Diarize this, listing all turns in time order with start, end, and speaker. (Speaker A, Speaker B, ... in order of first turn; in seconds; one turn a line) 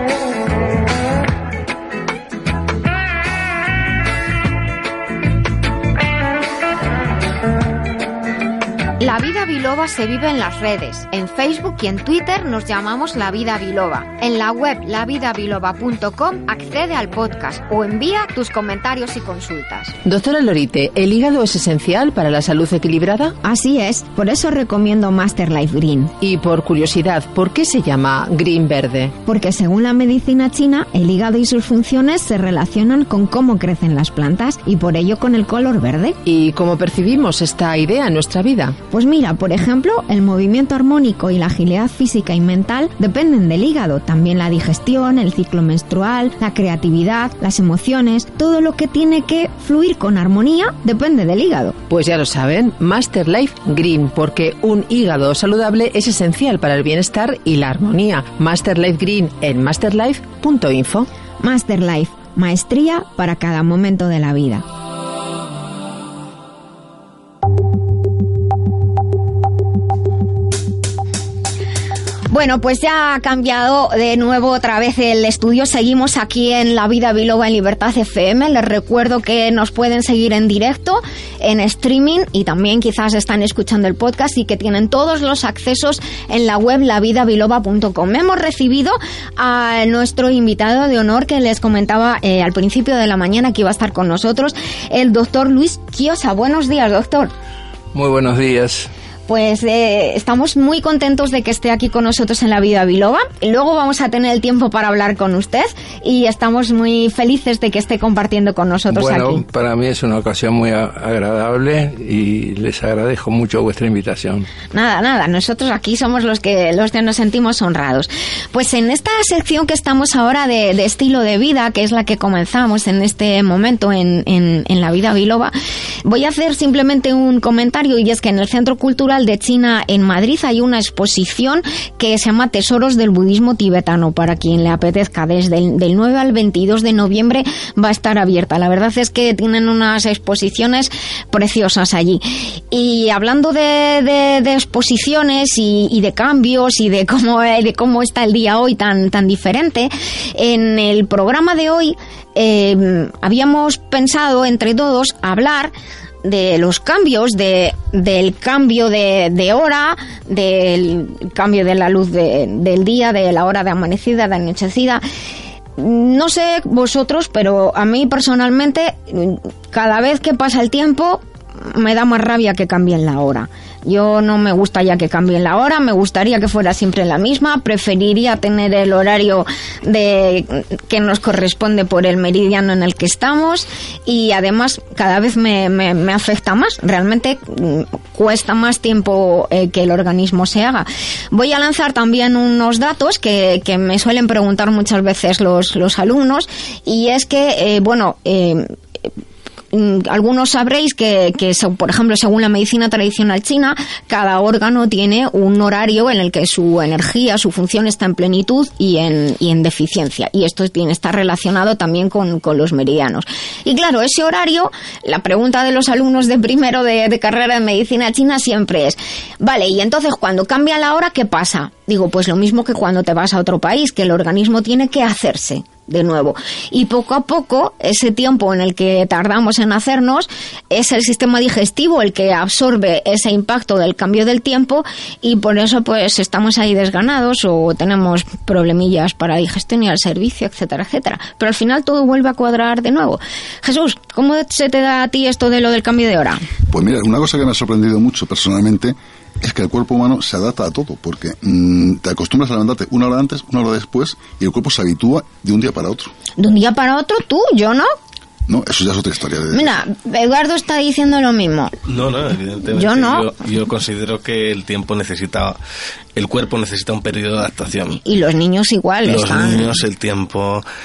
Speaker A: 9.0-19.9
Speaker B: 20.1-23.4
Speaker A: 23.4-26.1
Speaker B: 26.2-29.1
Speaker A: 29.2-36.2
Speaker B: 36.3-38.8
Speaker A: 38.9-51.8
Speaker B: 51.9-61.1
Speaker A: 61.4-64.7
Speaker A: 72.3-97.3
Speaker C: 97.9-98.9
Speaker A: 99.3-109.5
Speaker C: 108.9-114.5
Speaker A: 114.7-125.5
Speaker A: 126.0-155.7
Speaker A: 156.2-165.0
Speaker A: 165.8-198.7
Speaker A: 199.7-246.5
Speaker D: 246.7-256.1
Speaker A: 256.4-257.9
Speaker D: 258.5-259.8
Speaker A: 259.5-261.7
Speaker E: 261.9-265.6
Speaker A: 262.8-263.3
Speaker E: 266.1-268.0
Speaker A: 268.0-269.8
Speaker E: 269.1-270.6